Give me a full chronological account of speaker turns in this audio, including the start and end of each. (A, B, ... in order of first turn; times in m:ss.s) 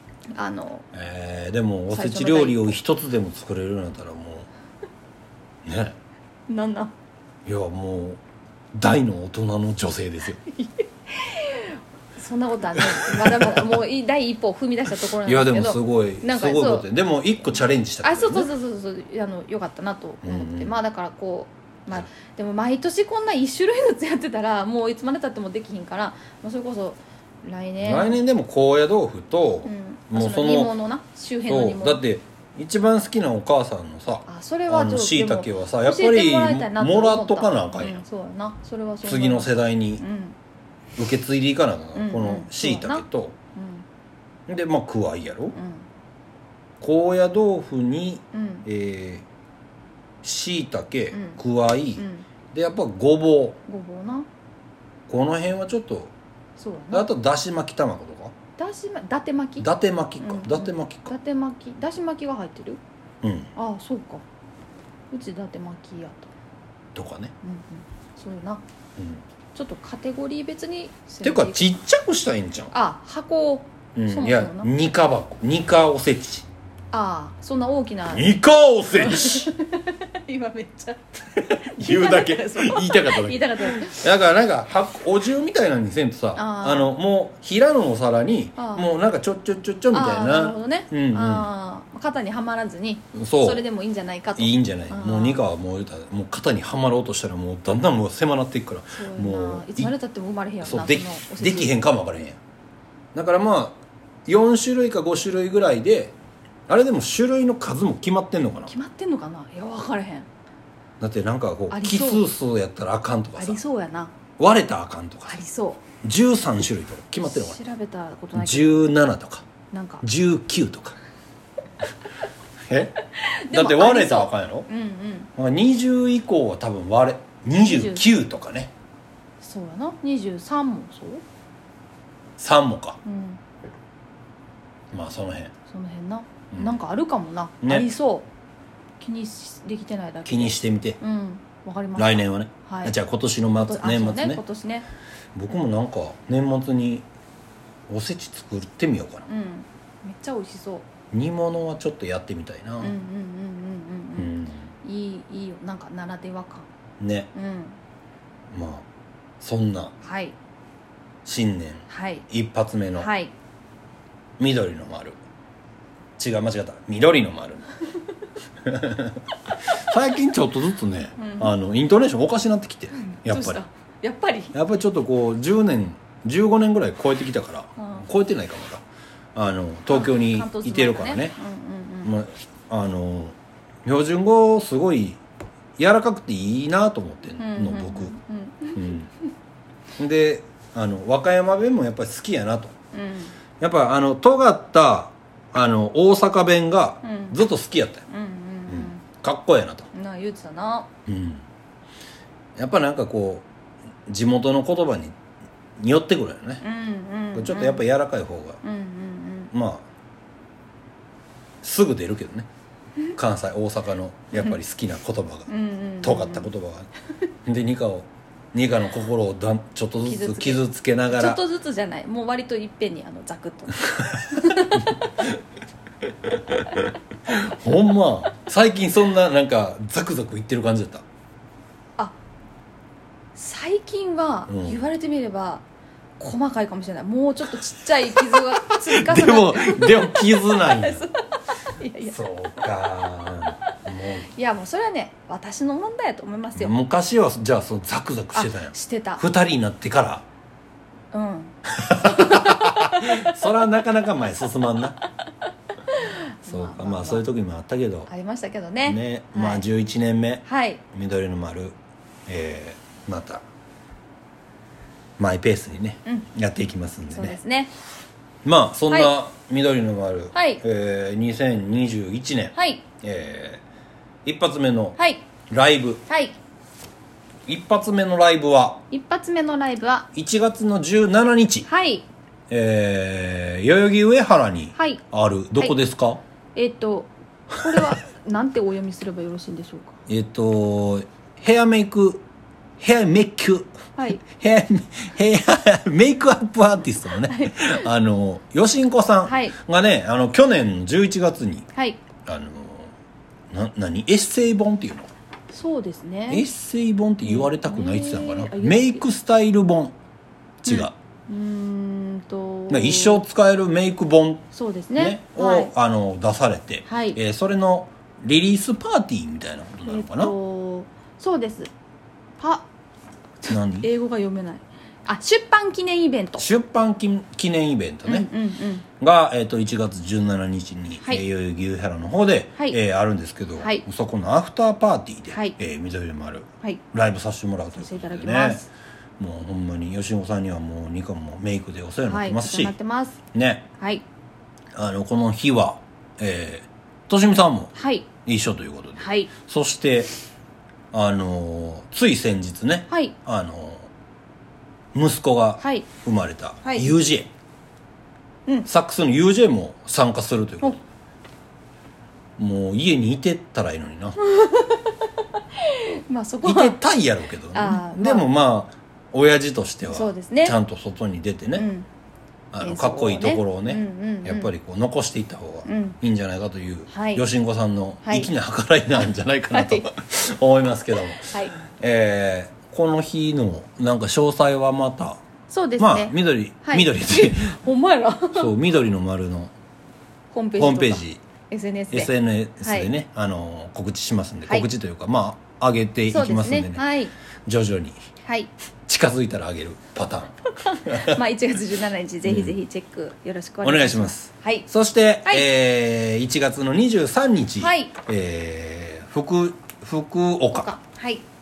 0:00.3-0:00.9 A
0:00.9-0:04.5 B
0:01.9-0:02.8 A
0:05.6-0:06.0 B
0:06.5-0:06.9 A
0:07.4-0:08.2 B
0:08.7-0:10.4 B
0:10.4-0:16.9 A
0:12.8-0:13.7 B
0:15.2-0:18.5 B
0:18.0-0:28.2 A
0:20.2-0:20.8 B
0:27.8-0:30.7 B
0:29.6-0:32.0 A
0:31.5-0:38.0 B
0:34.3-0:40.4 A
0:39.0-0:40.0 B
0:41.0-0:43.3 B
0:41.9-0:43.8 A
0:44.5-0:45.6 B
0:45.5-0:45.8 A
0:46.8-0:49.2 B
0:48.3-0:48.6 A
0:50.2-0:53.6 B
0:51.1-0:51.4 A
0:52.0-0:52.3 A
0:53.7-0:54.3 A
0:55.1-0:56.1 B
0:56.6-0:57.1 A
0:56.9-0:58.3 B
0:58.6-0:59.7 A
0:59.6-1:01.1 B
1:00.2-1:02.8 A
1:03.2-1:03.5 B
1:03.5-1:04.2 A
1:05.1-1:06.3 A
1:06.9-1:07.3 B
1:07.4-1:08.6 A
1:09.0-1:09.2 B
1:09.5-1:11.7 A
1:11.2-1:12.7 B
1:12.7-1:14.7 A
1:14.0-1:16.4 B
1:16.9-1:18.3 A
1:18.1-1:19.5 B
1:18.9-1:24.0 A
1:21.4-1:31.5 B
1:26.4-1:26.9 A
1:28.6-1:28.9 A
1:29.9-1:35.4 A
1:33.1-1:33.6 B
1:34.4-1:39.9 B
1:38.9-1:41.7 A
1:40.6-1:42.4 B
1:43.1-1:46.1 B
1:46.7-1:48.7 B
1:48.7-1:50.3 A
1:51.0-1:53.6 B
1:51.7-1:52.2 A
1:53.4-1:54.1 A
1:54.4-1:55.4 B
1:55.3-1:55.8 A
1:56.0-1:57.6 B
1:57.2-1:58.9 A
1:58.3-1:59.4 B
1:59.7-2:00.0 A
2:00.0-2:01.0 B
2:02.7-2:04.7 B
2:03.1-2:05.3 A
2:05.4-2:08.7 B
2:07.6-2:08.0 A
2:09.4-2:11.2 A
2:12.4-2:13.0 B
2:13.0-2:13.4 A
2:14.9-2:15.5 B
2:15.7-2:18.3 A
2:16.5-2:16.8 B
2:17.6-2:17.9 B
2:19.0-2:23.0 A
2:20.2-2:21.0 B
2:22.0-2:24.4 B
2:23.6-2:24.9 A
2:25.3-2:27.0 B
2:27.9-2:29.3 B
2:29.3-2:30.9 A
2:31.1-2:32.9 B
2:32.8-2:36.7 A
2:34.2-2:34.7 B
2:37.0-2:37.3 B
2:37.3-2:37.8 A
2:38.5-2:38.8 B
2:39.4-2:39.9 B
2:40.0-2:40.4 A
2:41.2-2:43.1 B
2:41.9-2:42.3 A
2:43.0-2:43.3 A
2:44.4-2:45.2 B
2:46.2-2:47.7 B
2:48.6-2:53.6 B
2:51.2-2:51.5 A
2:52.9-2:54.5 A
2:54.5-2:58.8 B
2:57.8-2:58.0 A
2:59.3-3:01.3 B
2:59.9-3:02.1 A
3:02.0-3:05.2 B
3:05.8-3:08.1 B
3:07.4-3:09.0 A
3:08.7-3:09.1 B
3:10.0-3:12.7 B
3:12.9-3:13.3 A
3:13.6-3:18.0 B
3:17.0-3:17.4 A
3:18.1-3:19.0 A
3:18.7-3:19.9 B
3:19.9-3:20.9 A
3:21.1-3:21.4 B
3:22.6-3:23.4 B
3:24.1-3:25.1 B
3:25.8-3:26.6 B
3:26.6-3:27.8 A
3:27.3-3:28.6 B
3:28.6-3:29.5 A
3:29.5-3:29.8 B
3:31.6-3:32.5 B
3:33.1-3:35.5 B
3:35.5-3:36.5 A
3:36.0-3:36.9 B
3:37.4-3:41.4 B
3:40.0-3:45.1 A
3:44.7-3:45.4 B
3:46.2-3:51.0 B
3:53.3-3:55.6 A
3:54.5-3:54.8 B
3:56.2-4:02.7 A
3:58.2-4:01.0 B
4:02.0-4:04.3 B
4:04.3-4:06.7 A
4:06.5-4:10.2 B
4:08.3-4:09.2 A
4:11.1-4:13.3 A
4:11.7-4:15.0 B
4:15.2-4:17.2 A
4:16.5-4:18.1 B
4:18.1-4:19.6 A
4:18.8-4:21.7 B
4:20.4-4:20.8 A
4:22.3-4:23.4 B
4:25.2-4:27.4 B
4:27.1-4:27.7 A
4:28.4-4:33.6 B
4:30.3-4:30.6 A
4:32.5-4:32.8 A
4:34.2-4:35.0 B
4:35.0-4:35.2 A
4:35.5-4:36.0 B
4:36.1-4:36.4 A
4:37.5-4:38.8 B
4:38.9-4:40.1 A
4:40.1-4:41.7 B
4:41.7-4:42.0 A
4:42.5-4:46.2 B
4:44.8-4:45.0 A
4:46.5-4:50.0 A
4:47.6-4:48.0 B
4:50.1-4:52.2 B
4:52.8-5:01.7 B
4:54.0-4:54.2 A
4:57.2-4:57.9 A
4:59.2-4:59.6 A
5:01.7-5:02.0 A
5:02.2-5:02.9 B
5:03.5-5:05.1 B
5:05.5-5:06.4 A
5:06.3-5:09.9 B
5:07.2-5:09.0 A
5:10.6-5:13.2 A
5:10.6-5:10.9 B
5:12.7-5:20.3 B
5:14.5-5:15.7 A
5:16.9-5:17.2 A
5:19.8-5:21.7 A
5:22.4-5:22.7 A
5:23.4-5:26.4 A
5:23.5-5:23.9 B
5:26.4-5:28.3 B
5:28.0-5:28.8 A
5:29.0-5:38.6 B
5:33.6-5:33.8 A
5:35.3-5:35.6 A
5:37.8-5:38.6 A
5:39.2-5:42.8 B
5:42.0-5:43.2 A
5:43.3-5:43.6 B
5:43.8-5:44.0 A
5:44.7-5:47.7 B
5:47.7-5:48.1 A
5:48.2-5:50.1 B
5:49.0-5:49.3 A
5:50.9-5:53.9 B
5:52.9-5:53.1 A
5:54.9-5:57.3 B
5:55.6-5:55.9 A
5:56.6-5:56.9 A
5:58.6-6:00.8 B
6:02.4-6:04.2 B
6:04.2-6:06.8 A
6:06.4-6:11.7 B
6:07.5-6:08.3 A
6:09.9-6:10.6 A
6:11.6-6:11.9 A
6:12.5-6:25.2 B
6:12.6-6:14.5 A
6:15.6-6:16.0 A
6:16.9-6:17.2 A
6:18.0-6:18.3 A
6:19.0-6:19.9 A
6:21.2-6:21.6 A
6:25.5-6:28.5 A
6:25.8-6:27.6 B
6:28.3-6:29.5 B
6:30.3-6:32.1 A
6:30.6-6:31.2 B
6:31.9-6:36.8 B
6:32.6-6:32.9 A
6:36.1-6:37.1 A
6:37.4-6:38.0 B
6:38.2-6:38.5 A
6:38.8-6:41.2 B
6:40.6-6:44.7 A
6:42.2-6:42.6 B
6:43.6-6:50.7 B
6:47.6-6:47.9 A
6:50.6-6:51.2 A